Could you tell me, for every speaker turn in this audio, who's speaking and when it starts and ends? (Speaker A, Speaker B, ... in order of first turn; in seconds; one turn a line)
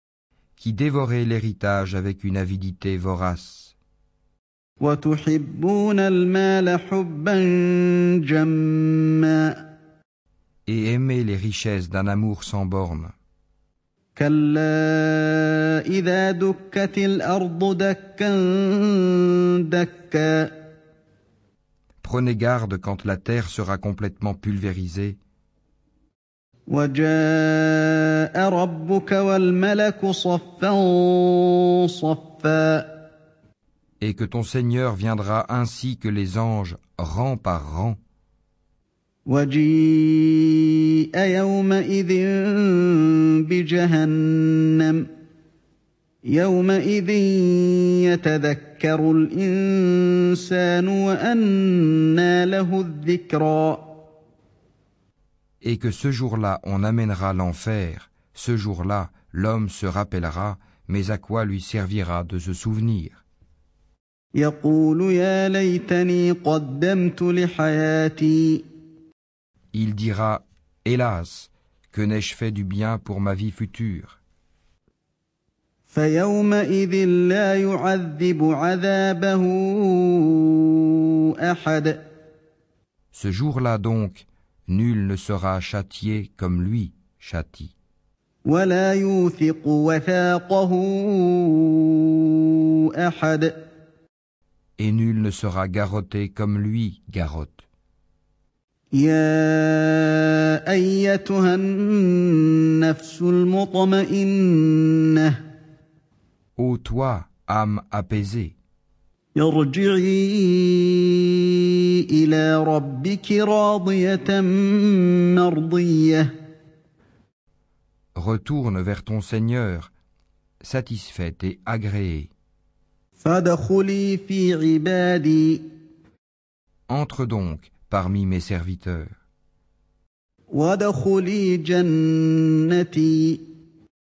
Speaker A: 0.6-3.7
Speaker B: 4.8-9.6
Speaker A: 10.7-13.1
Speaker B: 14.2-20.5
Speaker A: 22.0-25.2
Speaker B: 26.7-32.9
Speaker A: 34.0-38.0
Speaker B: 39.2-45.1
Speaker B: 46.2-53.9
Speaker A: 55.6-63.2
Speaker B: 64.3-68.6
Speaker A: 69.7-74.2
Speaker B: 75.9-82.0
Speaker A: 83.1-87.7
Speaker B: 88.4-93.5
Speaker A: 94.8-97.6
Speaker B: 98.9-105.4
Speaker A: 106.6-108.5
Speaker B: 109.3-116.3
Speaker A: 118.1-119.9
Speaker A: 120.6-122.3
Speaker B: 123.2-125.6
Speaker A: 126.9-129.1
Speaker B: 130.5-133.4